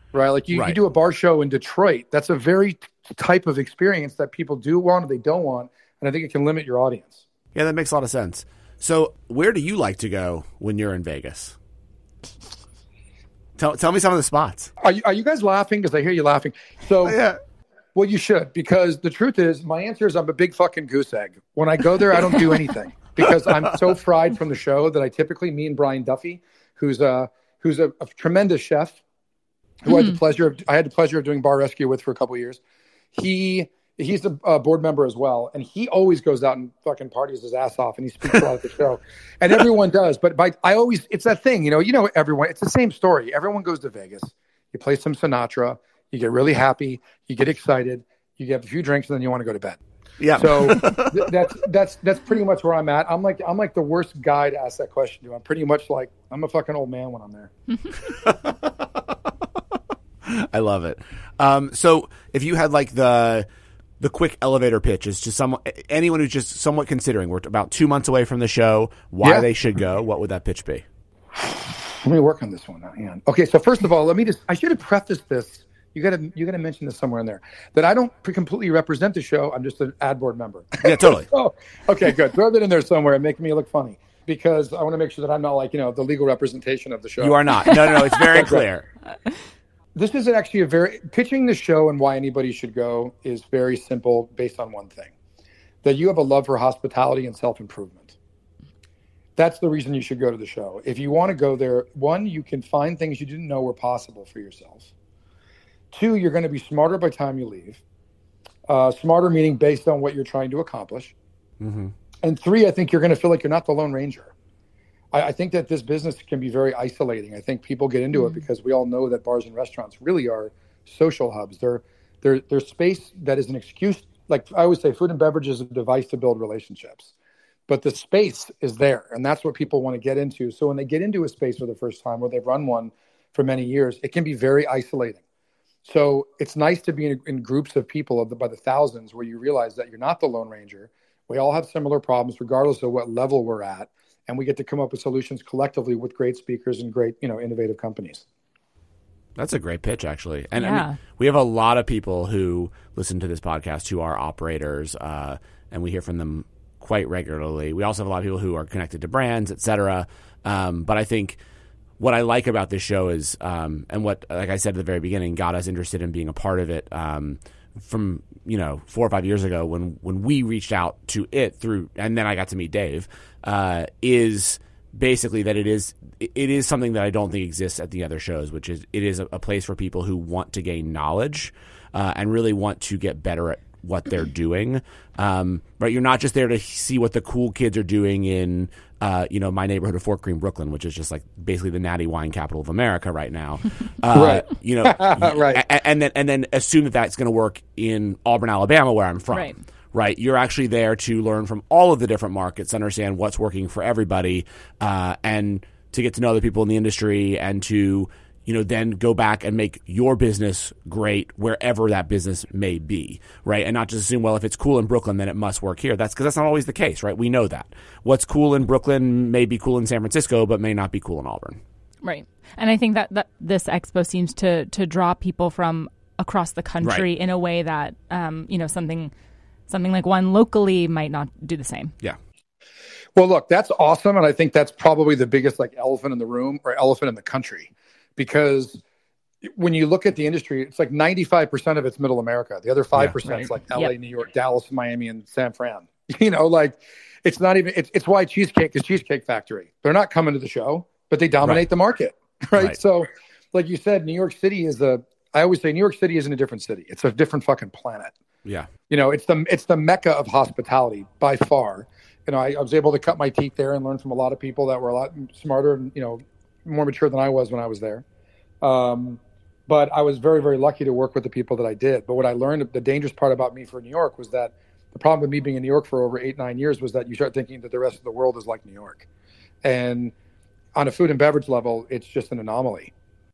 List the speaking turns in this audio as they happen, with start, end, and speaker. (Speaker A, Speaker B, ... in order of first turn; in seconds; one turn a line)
Speaker A: 0.1-7.2
Speaker B: 0.5-0.8
Speaker B: 7.5-11.6
Speaker B: 13.6-14.7
Speaker A: 14.8-17.2
Speaker B: 17.0-17.4
Speaker A: 17.9-29.0
Speaker A: 29.8-32.6
Speaker C: 29.9-30.1
Speaker A: 33.1-49.8
Speaker B: 50.2-51.3
Speaker A: 50.4-57.5
Speaker B: 58.1-59.0
Speaker B: 60.2-63.5
Speaker B: 64.0-70.8
Speaker A: 69.2-69.5
Speaker A: 71.4-88.7
Speaker B: 80.8-81.3
Speaker B: 87.2-88.9
Speaker A: 90.0-95.1
Speaker A: 95.8-98.2
Speaker A: 99.4-104.9
Speaker A: 105.9-107.8
Speaker A: 108.7-111.2
Speaker B: 111.6-111.9
Speaker A: 112.2-114.3
Speaker A: 115.1-127.1
Speaker C: 118.2-118.4
Speaker A: 127.7-135.2
Speaker A: 135.8-148.2
Speaker B: 149.4-161.4
Speaker C: 150.6-151.0
Speaker B: 162.0-221.6
Speaker A: 194.1-195.6
Speaker C: 222.0-229.1
Speaker C: 229.7-231.9
Speaker A: 233.2-238.8
Speaker A: 239.4-258.1
Speaker C: 243.2-243.9
Speaker A: 258.9-268.1
Speaker A: 268.6-279.1
Speaker A: 279.6-280.1
Speaker A: 280.8-282.9